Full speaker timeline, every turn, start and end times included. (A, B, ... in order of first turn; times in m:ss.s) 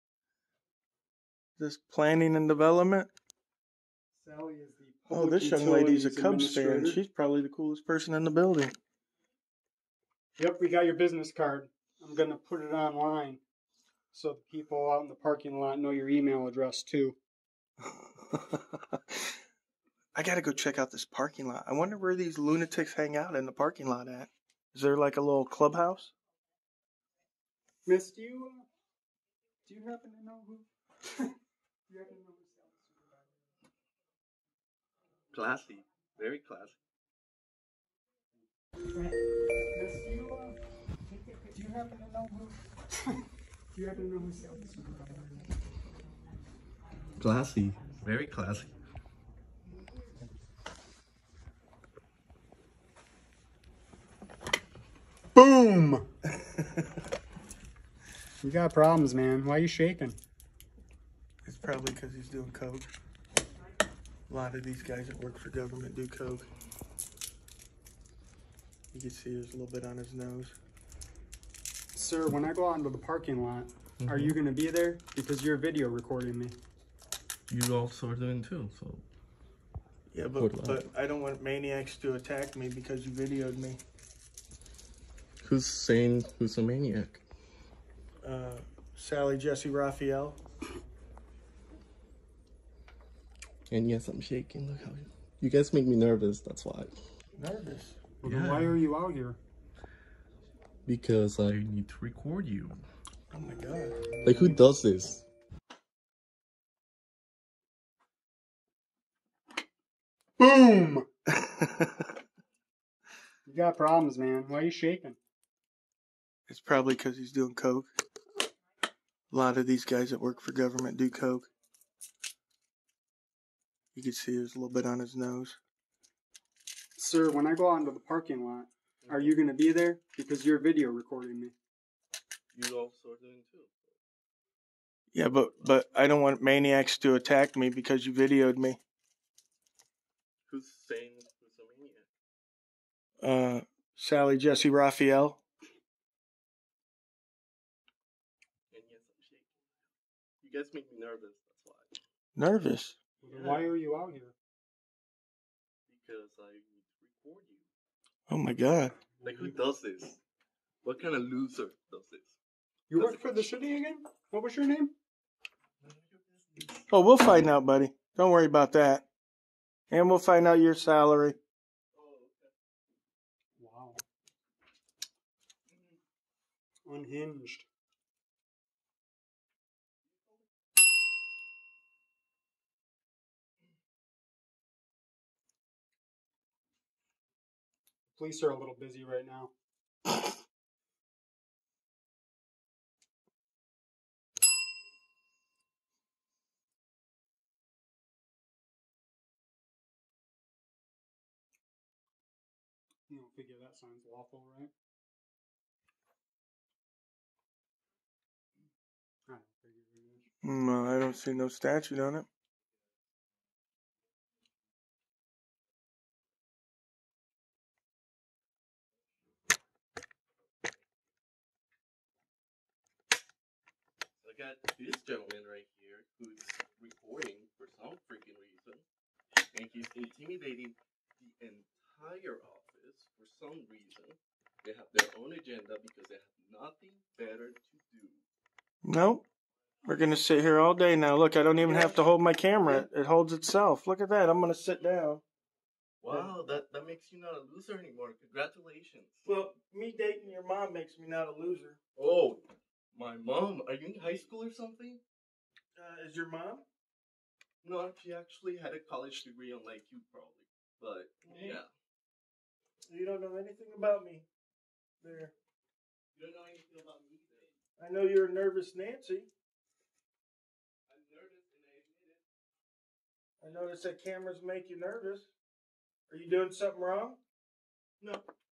0:01.6-0:03.1 A
0:04.1-0:07.0 B
0:05.1-0:08.7 A
0:10.4-0:13.4 B
0:14.1-0:17.2 B
0:17.8-0:19.0 A
0:20.1-0:26.1 A
0:27.8-0:28.6 B
0:29.6-0:31.3 B
0:31.9-0:33.3 B
0:35.3-0:36.8 C
0:39.7-0:40.6 B
0:41.5-0:43.2 B
0:43.7-0:45.4 B
0:47.2-0:48.7 C
0:55.3-0:56.0 B
0:58.4-1:00.2 B
1:01.4-1:02.9 A
1:04.3-1:06.5 A
1:08.9-1:10.5 A
1:11.9-1:16.6 B
1:14.0-1:14.3 C
1:17.5-1:19.0 C
1:20.1-1:23.8 A
1:20.4-1:20.8 C
1:25.4-1:27.2 C
1:28.2-1:30.4 A
1:33.7-1:36.9 C
1:37.4-1:38.0 A
1:38.2-1:39.4 B
1:38.2-1:38.8 C
1:40.8-1:42.8 C
1:43.3-1:44.1 A
1:44.2-1:45.2 C
1:50.4-1:51.0 B
1:51.3-1:52.1 A
1:53.4-1:55.2 B
1:56.5-1:57.9 A
1:59.3-2:01.5 A
2:03.9-2:05.6 A
2:07.0-2:11.5 B
2:09.0-2:09.3 C
2:12.5-2:14.0 C
2:15.1-2:18.8 A
2:20.5-2:22.1 C
2:23.2-2:25.4 A
2:28.7-2:29.6 C
2:30.4-2:32.0 C
2:32.4-2:33.0 A
2:33.2-2:34.3 B
2:33.3-2:33.7 C
2:35.9-2:37.7 C
2:38.3-2:39.0 A
2:39.1-2:39.6 B
2:39.2-2:40.2 C
2:40.8-2:42.4 C
2:42.9-2:44.9 B
2:42.9-2:43.5 C
2:45.8-2:46.9 C
2:46.9-2:49.0 A
2:49.9-2:51.4 A
2:51.9-2:52.5 C
2:53.6-2:54.0 B
2:56.8-2:57.6 B
3:08.1-3:09.5 B
3:23.1-3:24.7 B
3:29.3-3:30.3 B
3:30.4-3:32.3 A
3:44.2-3:48.8 C
3:49.4-3:58.2 C
3:58.8-3:59.2 A
3:59.8-4:05.2 A
4:01.6-4:02.0 C
4:06.0-4:09.2 C
4:06.1-4:06.3 A
4:09.2-4:11.8 A
4:12.0-4:12.4 C
4:12.9-4:15.0 C
4:15.8-4:16.6 A
4:17.6-4:21.7 C
4:21.3-4:21.6 A
4:22.9-4:24.2 A
4:25.0-4:25.3 A
4:26.1-4:27.5 C
4:27.8-4:29.3 A
4:30.9-4:32.2 C
4:33.4-4:35.3 A
4:36.1-4:37.2 A
4:38.0-4:38.3 C